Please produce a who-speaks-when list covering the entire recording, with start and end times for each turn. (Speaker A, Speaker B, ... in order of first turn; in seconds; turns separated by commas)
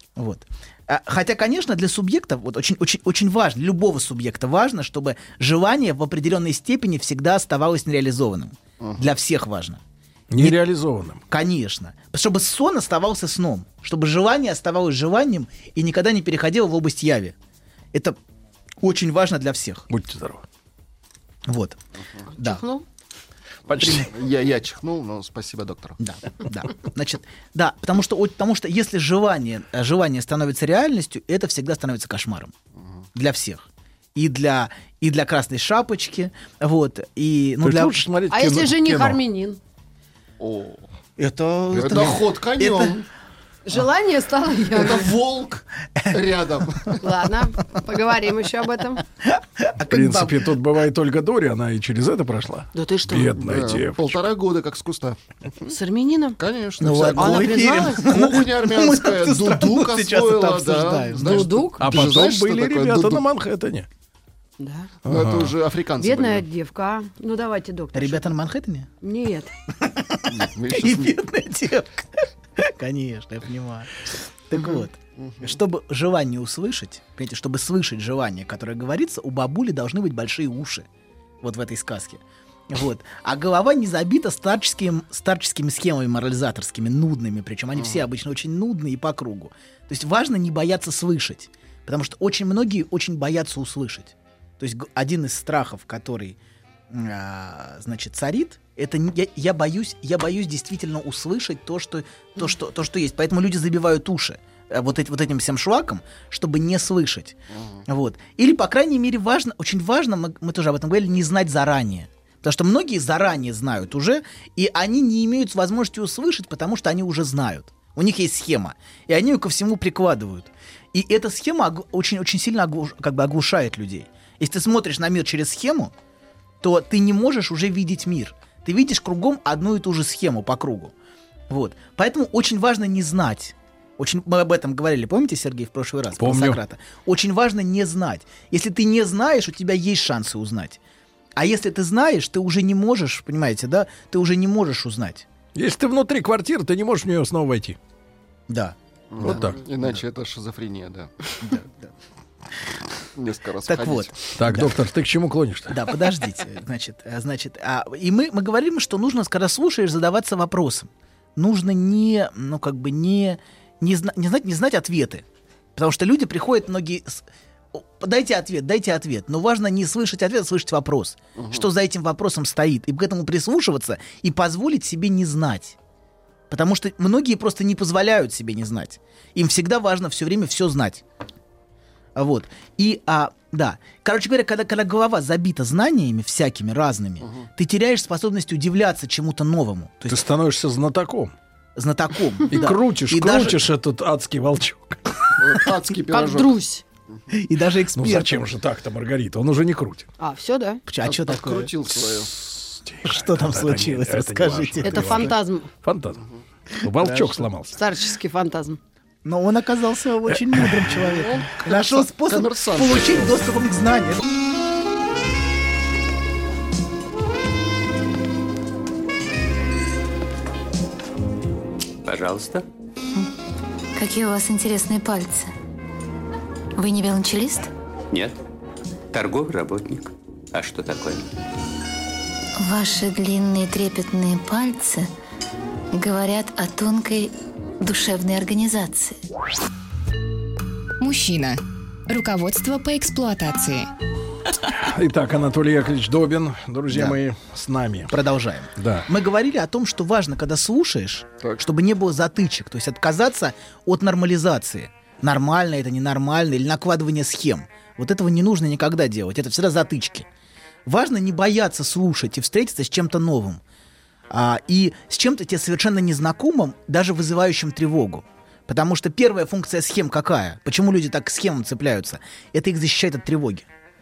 Speaker A: 0.2-9.8, Speaker B: 8.8-9.1, Speaker C: 10.3-11.2, Speaker A: 11.3-17.3, Speaker A: 18.8-19.9, Speaker C: 19.9-20.4, Speaker A: 21.5-21.8, Speaker D: 22.3-22.8, Speaker C: 23.7-24.1, Speaker B: 23.9-26.0, Speaker A: 26.0-32.5, Speaker A: 33.1-38.0, Speaker C: 37.6-39.2, Speaker D: 38.3-39.6, Speaker B: 40.4-40.9, Speaker A: 41.2-42.9, Speaker B: 41.7-43.1, Speaker D: 43.7-45.2, Speaker B: 44.7-47.0, Speaker D: 47.0-49.0, Speaker A: 49.2-50.5, Speaker C: 49.9-54.2, Speaker D: 52.8-53.4, Speaker B: 53.4-55.7, Speaker D: 55.7-56.4, Speaker B: 56.4-63.2, Speaker A: 56.8-61.6, Speaker D: 57.1-58.0, Speaker D: 61.2-61.9, Speaker C: 61.8-63.9, Speaker D: 64.6-64.9, Speaker B: 65.0-66.5, Speaker C: 65.1-65.5, Speaker D: 66.0-68.4, Speaker A: 67.9-68.9, Speaker D: 69.0-69.5, Speaker A: 69.8-80.8, Speaker B: 70.3-71.2, Speaker B: 75.2-75.5, Speaker A: 81.4-96.4, Speaker A: 96.9-107.4, Speaker A: 107.9-125.9, Speaker A: 126.6-130.9, Speaker A: 131.5-140.8, Speaker C: 136.2-136.6, Speaker A: 141.4-145.2, Speaker C: 145.5-147.8, Speaker A: 148.5-150.0, Speaker B: 149.1-151.5, Speaker C: 149.2-149.6, Speaker A: 151.4-151.9, Speaker B: 153.2-154.2, Speaker A: 153.7-154.8, Speaker C: 154.4-155.8, Speaker A: 155.7-165.2, Speaker A: 165.8-175.8, Speaker B: 171.4-171.7, Speaker A: 176.5-181.0, Speaker A: 182.2-190.2, Speaker B: 187.2-187.5, Speaker C: 190.1-191.3, Speaker A: 191.8-193.7, Speaker C: 192.5-195.0, Speaker B: 195.4-196.6, Speaker D: 196.1-196.8, Speaker A: 197.3-198.4, Speaker C: 197.9-200.1, Speaker D: 200.2-200.8, Speaker A: 200.9-201.7, Speaker B: 201.0-202.3, Speaker C: 202.2-206.2, Speaker A: 203.0-205.2, Speaker D: 204.8-205.7, Speaker C: 206.8-207.8, Speaker A: 207.0-207.5, Speaker D: 207.7-208.8, Speaker A: 209.2-214.2, Speaker C: 210.3-210.8, Speaker B: 210.9-213.4, Speaker E: 222.0-222.7, Speaker F: 224.0-225.5, Speaker F: 226.8-227.7, Speaker E: 228.1-228.4, Speaker E: 229.1-231.3, Speaker F: 232.6-235.1, Speaker F: 235.9-239.2, Speaker G: 241.0-243.9, Speaker C: 244.7-248.1, Speaker A: 246.9-247.2, Speaker A: 248.1-260.3, Speaker C: 248.8-249.1, Speaker A: 260.9-263.6, Speaker A: 264.3-273.7